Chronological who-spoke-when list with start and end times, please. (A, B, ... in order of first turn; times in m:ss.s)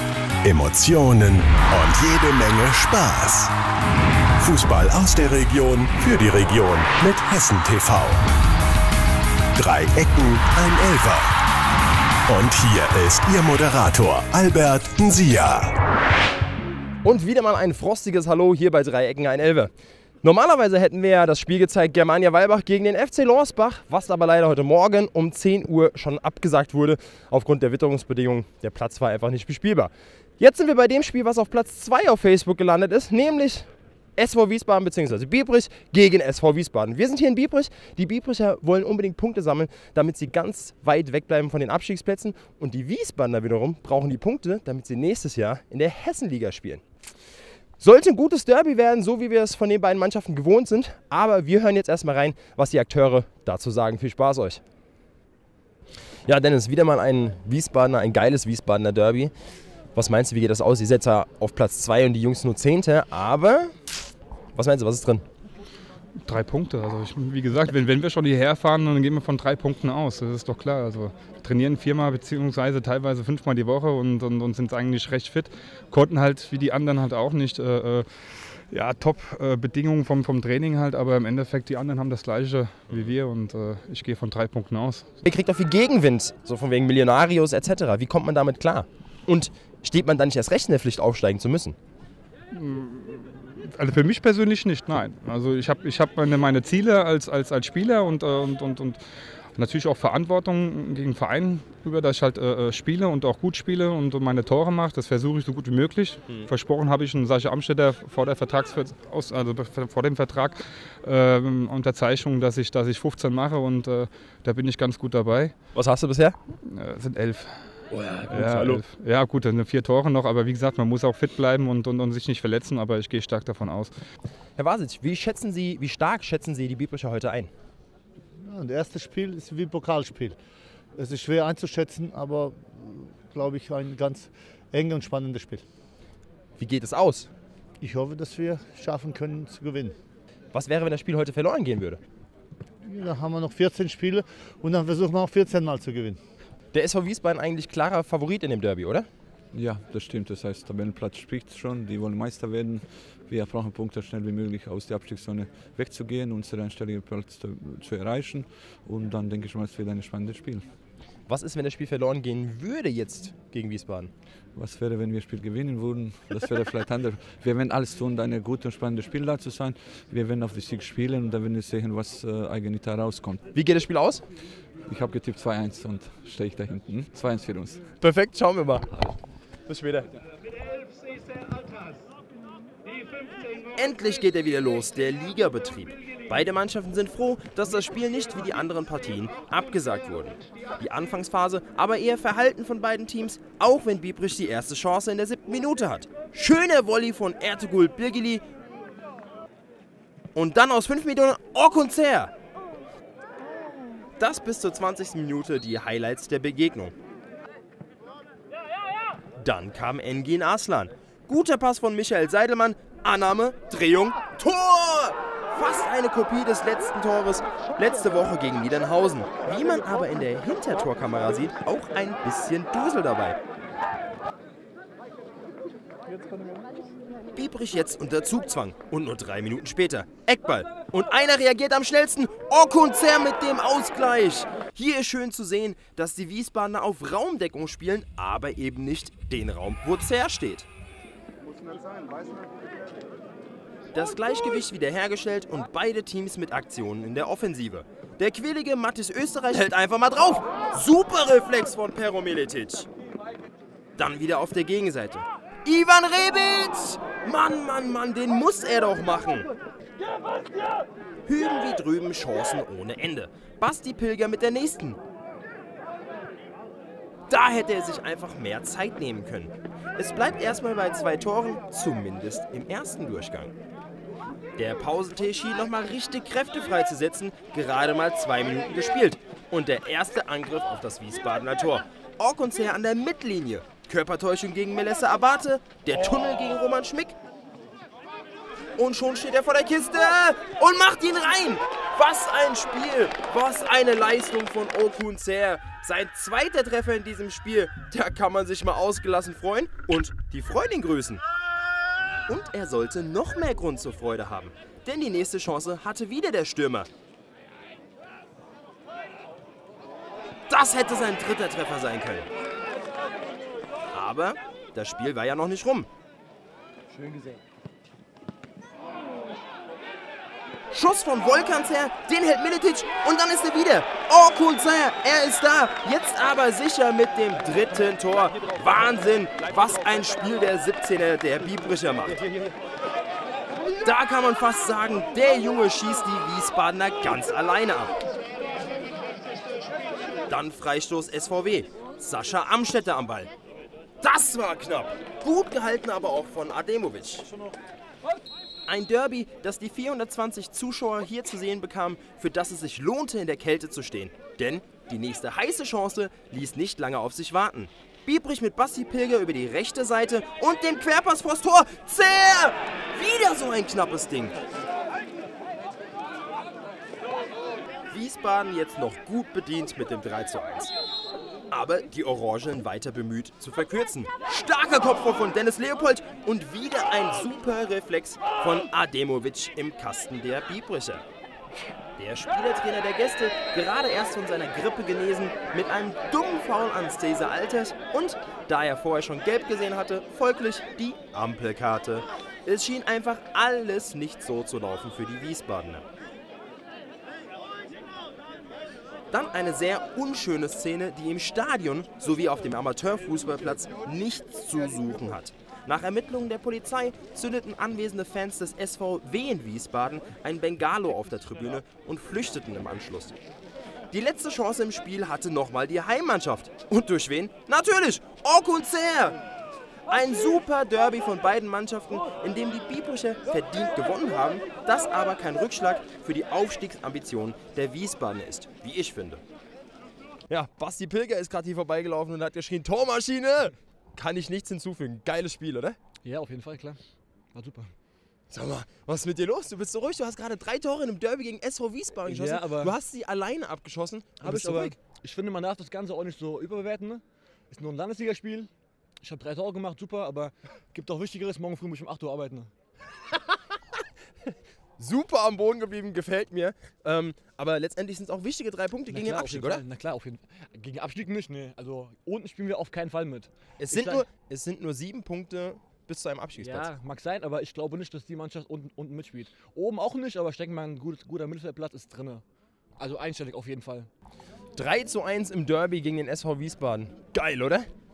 0:00.4-0:03.5 A
0:04.4-0:08.2 A
0:09.6-0:11.3 A
0:12.3-0:15.7 A
0:17.0-0:19.7 B
0:20.2-0:46.8 B
0:47.8-0:54.6 B
0:56.2-0:59.3 B
0:59.9-1:03.7 B
1:04.5-1:05.2 B
1:06.2-1:18.1 C
1:18.7-1:25.0 C
1:25.2-1:31.8 B
1:32.5-1:39.0 C
1:39.6-1:55.5 C
1:55.7-1:56.4 B
1:56.6-1:57.7 C
1:57.9-1:58.8 B
1:58.3-2:03.9 C
2:04.6-2:07.5 B
2:08.4-2:10.4 D
2:11.0-2:15.6 D
2:16.6-2:17.3 B
2:17.8-2:19.9 D
2:20.5-2:22.0 B
2:22.9-2:26.2 D
2:26.7-2:29.1 B
2:29.5-2:40.6 E
2:41.3-2:44.1 B
2:44.5-2:53.4 E
2:53.5-2:54.2 B
2:54.8-2:57.8 E
2:58.0-2:59.1 B
2:59.6-3:00.1 B
3:03.8-3:18.4 B
3:20.3-3:22.3 B
3:24.2-3:26.9 B
3:29.4-3:43.4 B
3:47.3-4:00.7 B
4:03.9-4:12.9 B
4:14.0-4:19.5 B
4:21.2-4:25.0 B
4:27.3-4:33.5 B
4:34.6-4:47.1 B
4:48.8-5:01.2 B
5:02.3-5:06.9 B
5:10.5-5:12.3 B
5:13.9-5:15.9 B
5:20.7-5:32.2 B
5:33.8-5:37.9 B
5:40.3-5:43.3 B
5:44.0-5:47.3 B
5:48.7-6:04.4 B
6:07.9-6:10.7 B
6:11.5-6:21.0 B
6:22.0-6:35.8 B
6:39.1-6:53.2 B
6:53.9-6:59.2 B
6:59.9-7:09.2 B
7:10.3-7:15.8 B
7:16.0-7:16.8 F
7:17.3-7:17.7 F
7:18.3-7:24.8 B
7:22.0-7:22.8 F
7:24.2-7:28.5 F
7:29.0-7:32.5 F
7:34.8-7:39.6 B
7:38.9-7:44.1 F
7:43.6-7:46.7 B
7:46.4-7:52.2 F
7:52.8-7:53.9 F
7:54.5-7:57.7 B